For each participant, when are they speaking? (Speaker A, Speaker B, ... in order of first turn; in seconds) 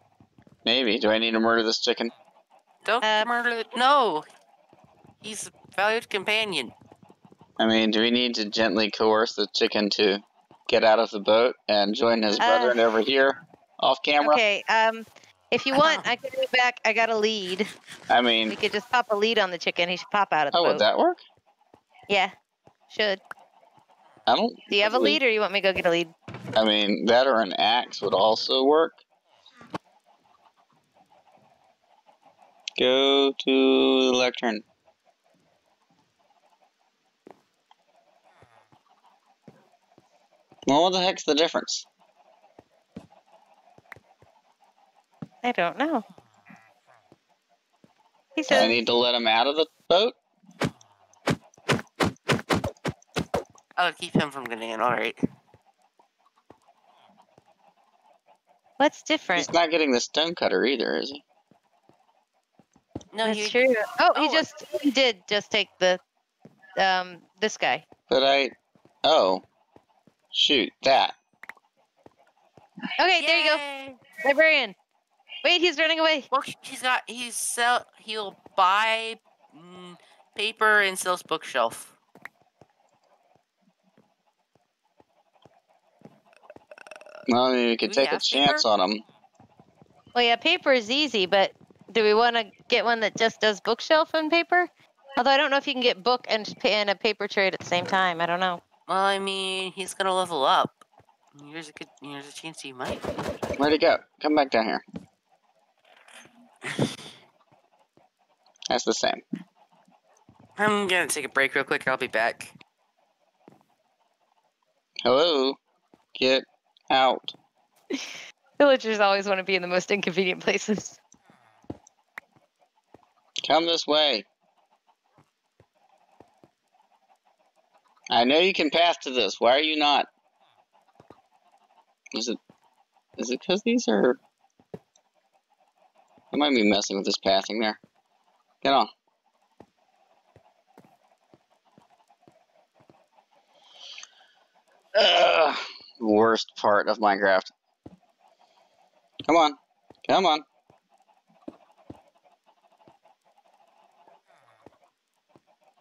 Speaker A: 0.7-2.1, 7.6-14.4, 18.1-18.6, 20.5-21.2, 24.3-25.2, 26.6-29.0, 32.8-34.6, 40.7-41.9, 48.5-50.2, 59.4-61.2, 68.1-69.4, 70.3-71.2, 87.3-89.0, 103.6-104.8, 108.7-109.2, 115.0-115.6, 116.2-117.3, 123.5-124.3, 128.1-130.1, 133.2-134.2, 136.3-137.8, 138.6-138.9, 144.9-147.5, 149.3-150.4
Speaker B: 2.8-4.3, 5.2-6.7, 15.7-16.1, 53.8-55.2, 63.1-64.5, 73.2-74.0, 76.3-82.0, 87.9-88.7, 98.9-100.8, 101.3-103.0, 110.6-112.5
Speaker C: 3.0-3.3, 12.4-12.9, 14.2-17.7, 18.5-20.9, 22.9-23.2, 24.7-26.1, 45.4-46.0, 48.4-48.8, 58.8-59.5, 63.2-66.0, 66.8-67.9, 73.0-73.6, 74.2-74.8, 75.4-76.3, 90.2-98.6, 118.6-121.0